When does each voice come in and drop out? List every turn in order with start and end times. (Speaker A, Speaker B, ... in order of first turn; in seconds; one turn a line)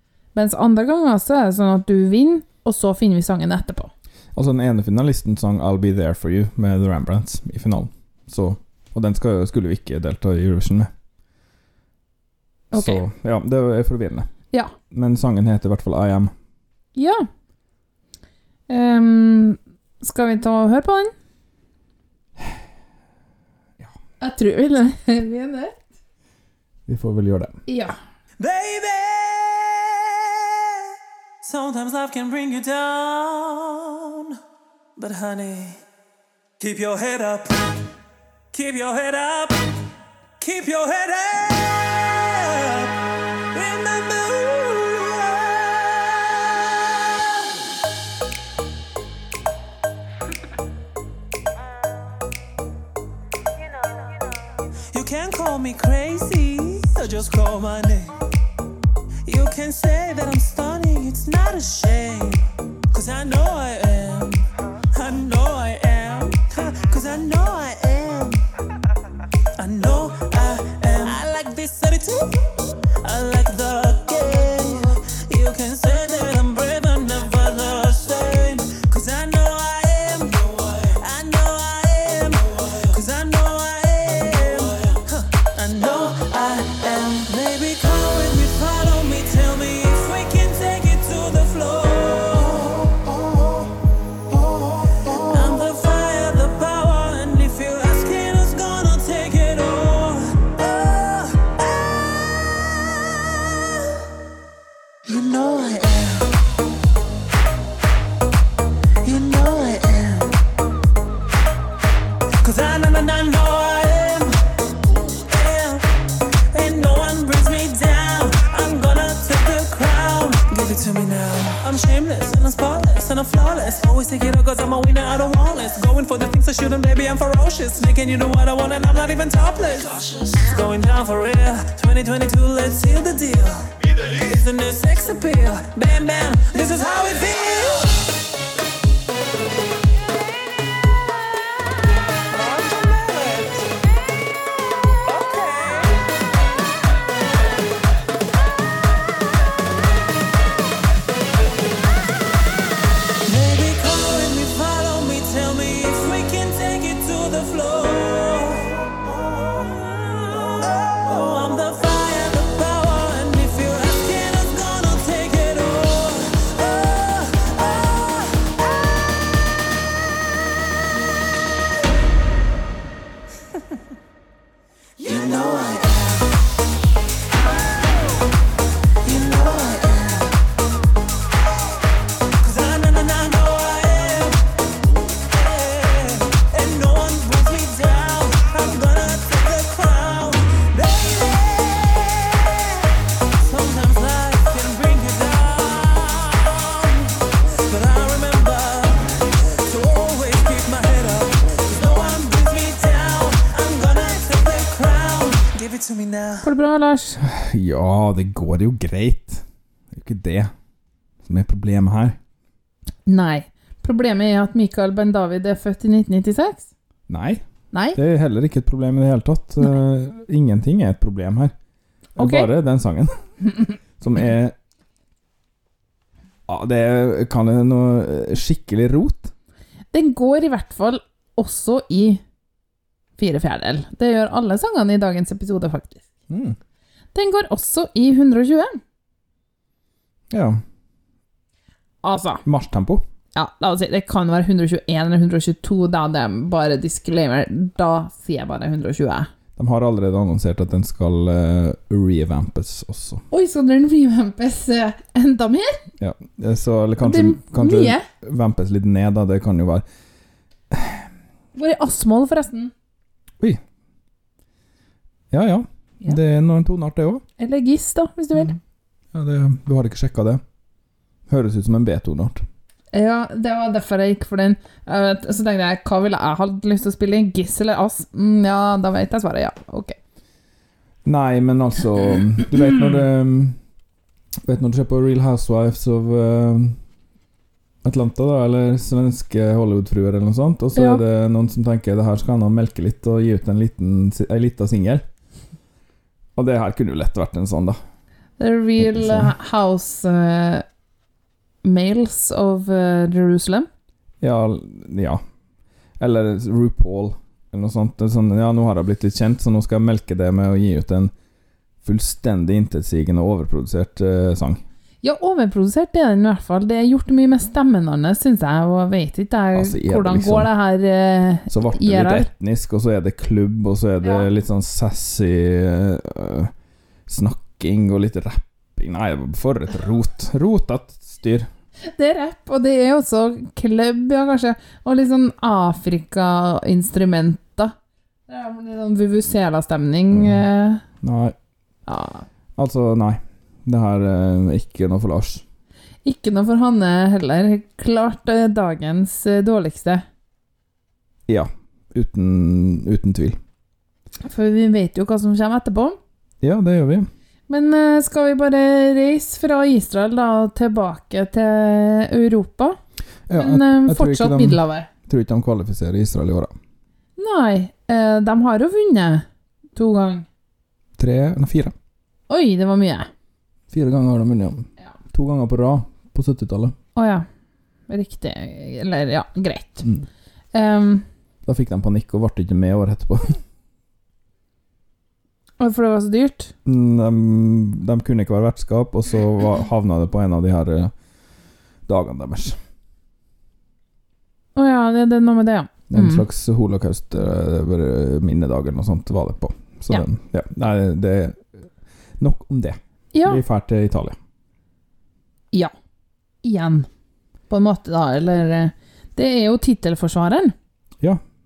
Speaker A: 0.3-3.9
Speaker B: 4.3-10.9
Speaker A: 12.7-13.0
Speaker B: 12.7-14.3
Speaker B: 14.9-16.3
Speaker A: 16.9-17.2
Speaker A: 18.7-21.1
Speaker A: 24.2-25.8
Speaker B: 26.9-27.6
Speaker A: 27.7-27.9
Speaker C: 28.4-30.5
Speaker C: 31.4-34.4
Speaker C: 35.0-35.8
Speaker C: 36.6-37.6
Speaker C: 38.5-39.6
Speaker C: 40.4-42.9
Speaker C: 43.5-46.5
Speaker C: 54.9-58.1
Speaker C: 59.2-68.4
Speaker C: 69.6-72.3
Speaker C: 73.0-93.0
Speaker C: 95.0-102.6
Speaker C: 105.0-106.3
Speaker C: 109.0-110.3
Speaker C: 112.4-114.3
Speaker C: 115.3-115.8
Speaker C: 116.5-138.0
Speaker C: 142.3-143.7
Speaker C: 145.1-146.0
Speaker C: 153.2-158.8
Speaker C: 159.5-168.5
Speaker C: 175.0-176.3
Speaker C: 179.0-180.3
Speaker C: 182.4-184.4
Speaker C: 185.3-206.5
Speaker A: 206.4-207.2
Speaker B: 207.2-210.5
Speaker B: 211.2-212.2
Speaker A: 213.1-216.7
Speaker B: 217.1-217.4
Speaker A: 217.7-218.0
Speaker B: 217.9-221.5
Speaker B: 222.2-223.1
Speaker A: 222.2-222.5
Speaker B: 224.0-224.5
Speaker B: 226.5-229.3
Speaker A: 229.9-232.2
Speaker A: 233.2-236.0
Speaker B: 236.3-236.6
Speaker A: 237.1-238.8
Speaker B: 240.3-240.6
Speaker A: 242.0-242.4
Speaker B: 242.4-243.0
Speaker A: 243.3-249.3
Speaker B: 249.6-253.2
Speaker A: 253.3-255.8
Speaker B: 256.0-259.8
Speaker A: 257.0-258.1
Speaker B: 260.7-261.1
Speaker A: 261.5-262.7
Speaker B: 265.3-267.2
Speaker A: 267.4-268.5
Speaker B: 269.1-270.4
Speaker B: 271.3-272.4
Speaker A: 272.9-279.9
Speaker B: 281.0-283.6
Speaker B: 284.4-286.8
Speaker B: 287.8-295.0
Speaker A: 290.7-291.0
Speaker B: 296.4-297.8
Speaker A: 298.4-300.6
Speaker B: 298.8-299.3
Speaker A: 301.6-303.7
Speaker B: 304.2-305.2
Speaker B: 306.0-311.1
Speaker B: 311.8-314.6
Speaker A: 315.0-322.3
Speaker B: 319.5-320.5
Speaker B: 321.5-326.5
Speaker B: 327.1-331.5
Speaker A: 331.8-337.7
Speaker A: 338.3-340.8
Speaker B: 340.1-340.4
Speaker B: 341.0-341.4
Speaker A: 341.9-342.2
Speaker B: 342.6-345.4
Speaker A: 346.0-350.0
Speaker B: 351.3-353.4
Speaker A: 354.2-356.0
Speaker B: 356.4-357.1
Speaker A: 357.5-362.8
Speaker B: 363.3-366.5
Speaker A: 363.4-364.9
Speaker A: 367.2-369.2
Speaker A: 369.8-370.2
Speaker B: 371.0-371.7
Speaker A: 372.3-373.1
Speaker B: 373.7-376.7
Speaker A: 376.9-377.2
Speaker A: 377.9-379.9
Speaker A: 380.5-381.0
Speaker B: 381.4-383.4
Speaker A: 385.6-386.5
Speaker B: 386.6-390.9
Speaker B: 391.9-392.6
Speaker A: 394.6-396.2
Speaker B: 395.9-401.4
Speaker B: 402.2-404.2
Speaker A: 403.1-403.4
Speaker A: 406.4-406.9
Speaker A: 407.5-410.5